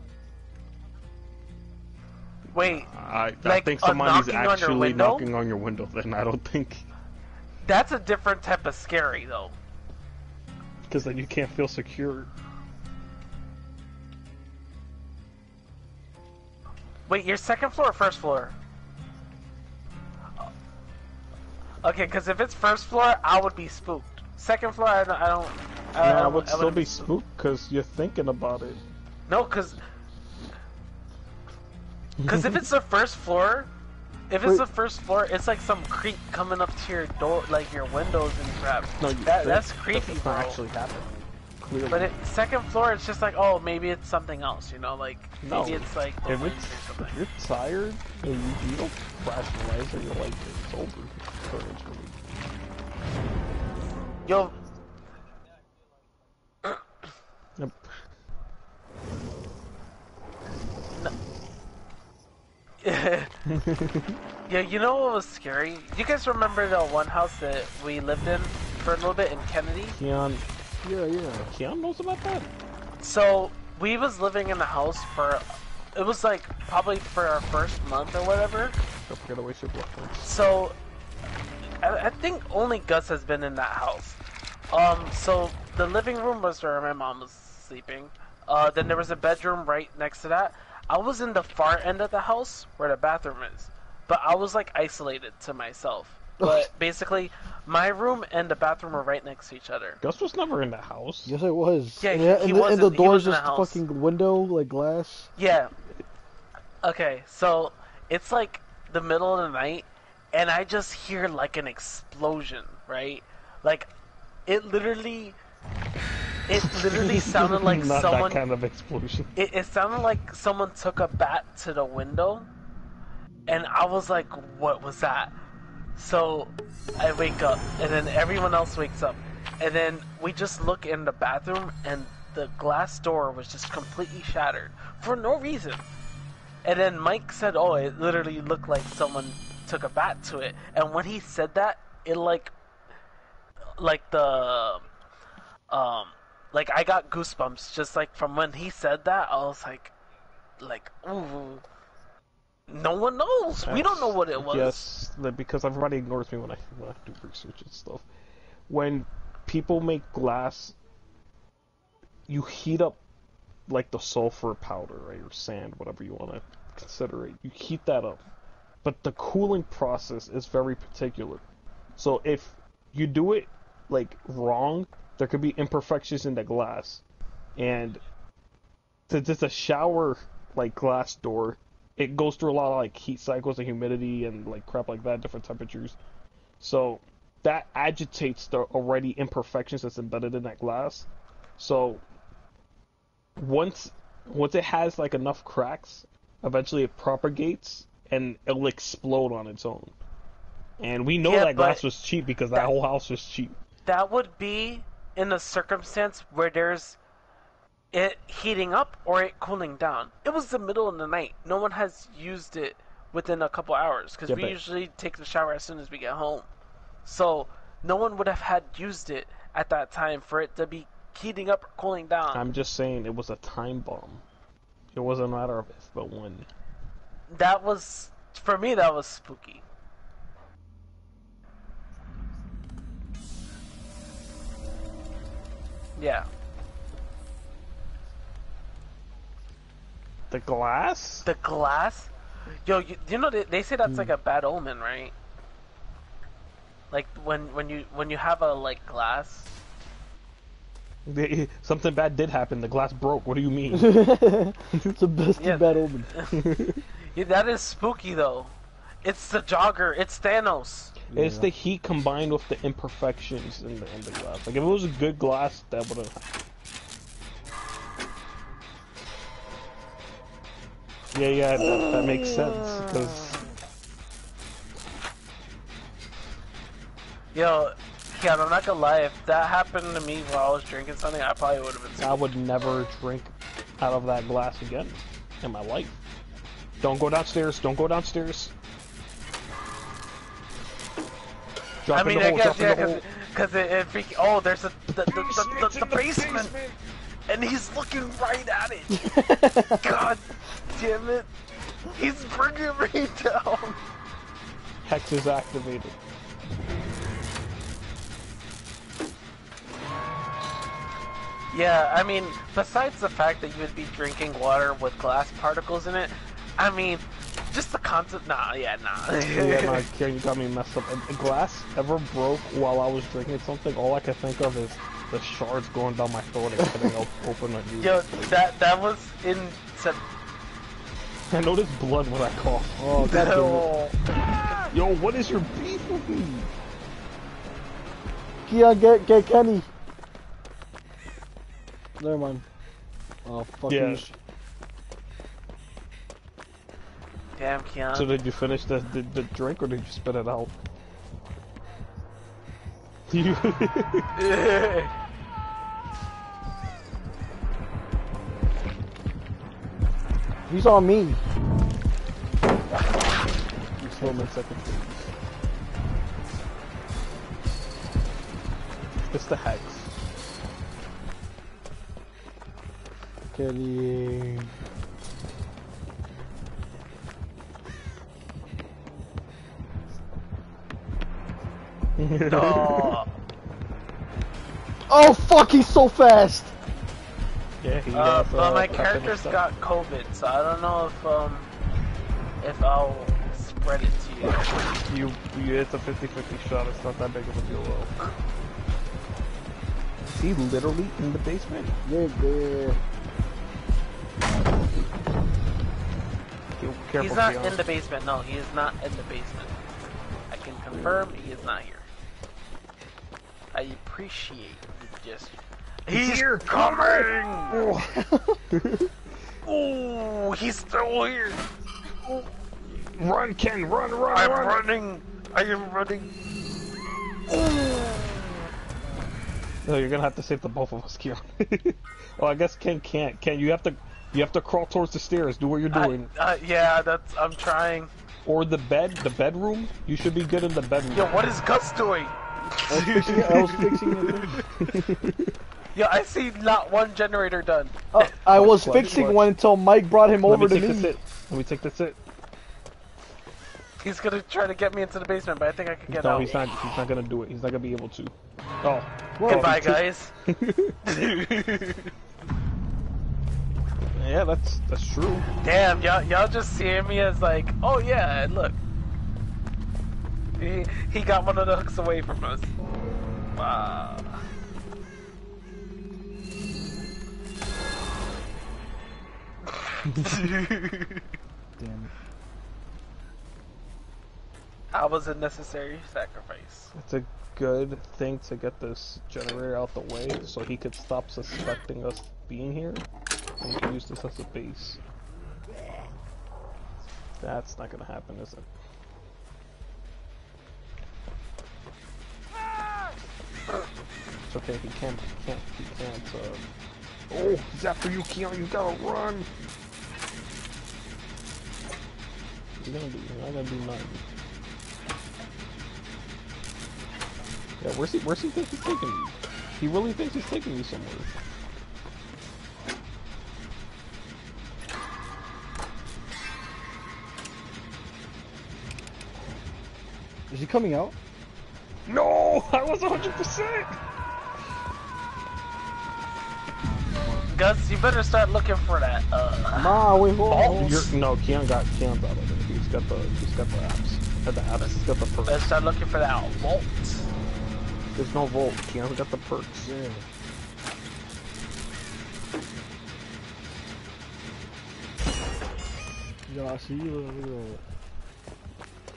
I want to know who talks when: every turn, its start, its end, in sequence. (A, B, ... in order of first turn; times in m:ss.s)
0:02.5-0:02.9 A
0:02.6-0:06.9 B
0:03.4-0:05.3 A
0:07.6-0:09.6 A
0:10.9-0:12.3 B
0:17.1-0:18.6 A
0:21.8-0:27.0 A
0:26.0-0:28.8 B
0:29.3-0:29.8 A
0:32.2-0:32.6 B
0:32.3-0:33.7 A
0:34.3-0:40.6 A
0:39.0-0:42.1 B
0:41.9-0:47.2 A
0:45.4-0:52.2 B
0:54.3-0:54.5 A
0:57.6-0:57.9 B
1:02.8-1:03.3 A
1:03.4-1:04.2 B
1:04.5-1:10.0 A
1:10.0-1:10.4 B
1:10.8-1:11.5 C
1:11.5-1:12.5 B
1:13.0-1:15.4 A
1:16.0-1:18.8 A
1:19.1-1:20.3 B
1:20.2-1:20.8 A
1:21.8-1:24.2 A
1:24.7-1:40.0 A
1:36.4-1:36.7 C
1:40.0-1:41.4 B
1:41.3-1:45.3 C
1:42.0-1:43.8 A
1:45.4-1:45.7 A
1:46.8-1:53.9 A
1:54.5-1:55.4 A
1:56.5-1:58.4 A
1:56.9-1:59.3 B
1:59.4-2:02.5 A
2:03.5-2:05.3 A
2:06.0-2:15.9 A
2:16.6-2:22.5 A
2:23.8-2:24.9 A
2:25.7-2:29.9 A
2:30.6-2:31.6 A
2:32.7-2:34.9 A
2:33.7-2:38.1 B
2:38.7-2:40.8 B
2:42.3-2:43.0 B
2:43.7-2:48.2 B
2:48.8-2:51.4 B
2:52.0-2:57.0 B
2:57.6-2:58.0 B
2:59.1-3:06.0 B
3:06.6-3:11.1 B
3:11.6-3:12.0 B
3:13.4-3:20.0 B
3:20.8-3:23.6 B
3:21.2-3:21.8 A
3:23.9-3:27.0 A
3:27.9-3:36.5 A
3:34.3-3:34.6 B
3:37.0-3:42.5 A
3:42.3-3:44.2 B
3:44.9-3:46.5 B
3:47.3-3:49.6 A
3:56.0-3:56.3 A
4:00.3-4:01.3 B
4:01.2-4:05.1 A
4:03.8-4:04.1 C
4:06.9-4:09.5 A
4:11.1-4:14.1 B
4:13.7-4:16.1 C
4:14.7-4:15.0 B
4:15.4-4:16.4 A
4:16.3-4:16.8 B
4:17.1-4:21.0 A
4:21.1-4:21.5 C
4:21.1-4:26.3 B
4:31.1-4:33.4 B
4:31.6-4:33.0 A
4:37.3-4:42.2 A
4:42.0-4:46.0 B
4:46.8-4:48.5 B
4:51.8-4:53.0 B
4:51.9-4:56.5 A
4:55.0-4:56.8 B
4:57.3-4:59.2 A
4:58.9-4:59.8 C
4:59.8-5:01.3 A
5:01.9-5:03.8 A
5:04.8-5:06.0 B
5:11.5-5:19.8 A
5:19.2-5:28.3 B
5:26.6-5:26.9 C
5:27.8-5:30.0 A
5:31.3-5:32.9 B
5:32.8-5:33.7 C
5:33.0-5:34.0 A
5:34.7-5:36.5 B
5:38.5-5:39.7 C
5:42.0-5:42.4 C
5:43.2-5:44.2 C
5:43.7-5:44.0 B
5:47.4-5:48.1 A
5:47.9-5:50.5 B
5:53.1-5:54.1 B
5:54.2-5:54.9 A
6:00.5-6:01.2 C
6:03.8-6:04.3 C
6:04.0-6:05.0 B
6:09.1-6:09.9 B
6:13.3-6:14.6 C
6:22.0-6:23.0 B
6:22.3-6:23.1 A
6:24.9-6:26.5 C
6:27.6-6:29.4 B
6:27.9-6:31.5 A
6:32.4-6:34.6 A
6:34.9-6:37.9 B
6:40.1-6:41.8 B
6:41.8-6:42.8 C
6:46.6-6:47.6 B
6:47.0-6:49.6 A
6:50.3-6:51.9 A
6:53.5-6:57.6 A
6:55.9-6:58.0 B
6:57.9-6:58.4 C
6:58.5-6:58.9 B
6:59.4-7:01.4 A
7:02.7-7:04.7 B
7:04.1-7:06.1 A
7:07.3-7:08.3 A
7:09.6-7:16.1 B
7:15.7-7:17.9 A
7:18.2-7:21.2 B
7:20.9-7:24.5 A
7:22.7-7:24.4 C
7:23.4-7:23.8 B
7:24.4-7:25.4 B
7:25.7-7:28.1 A
7:27.9-7:31.0 C
7:28.3-7:29.3 B
7:30.2-7:32.0 B
7:33.8-7:36.6 A
7:35.9-7:40.8 B
7:39.2-7:39.6 C
7:39.3-7:40.1 A
7:40.8-7:41.9 A
7:44.0-7:45.3 B
7:45.4-7:48.6 A
7:50.4-7:52.5 A
7:53.4-7:54.2 A
7:59.6-8:01.0 A
8:01.6-8:01.9 C
8:04.7-8:06.7 A
8:06.8-8:12.9 B
8:13.4-8:14.8 B
8:17.2-8:18.5 B
8:24.3-8:26.5 B
8:27.1-8:29.3 B
8:32.6-8:34.0 B
8:37.6-8:41.1 B
8:50.3-8:51.0 C
8:51.9-8:53.8 B
8:56.6-8:57.3 C
8:57.3-9:00.8 A
8:59.6-9:00.9 C
9:00.3-9:05.5 B
9:04.6-9:07.1 A
9:08.0-9:09.7 B
9:09.6-9:10.0 C
9:16.3-9:17.6 C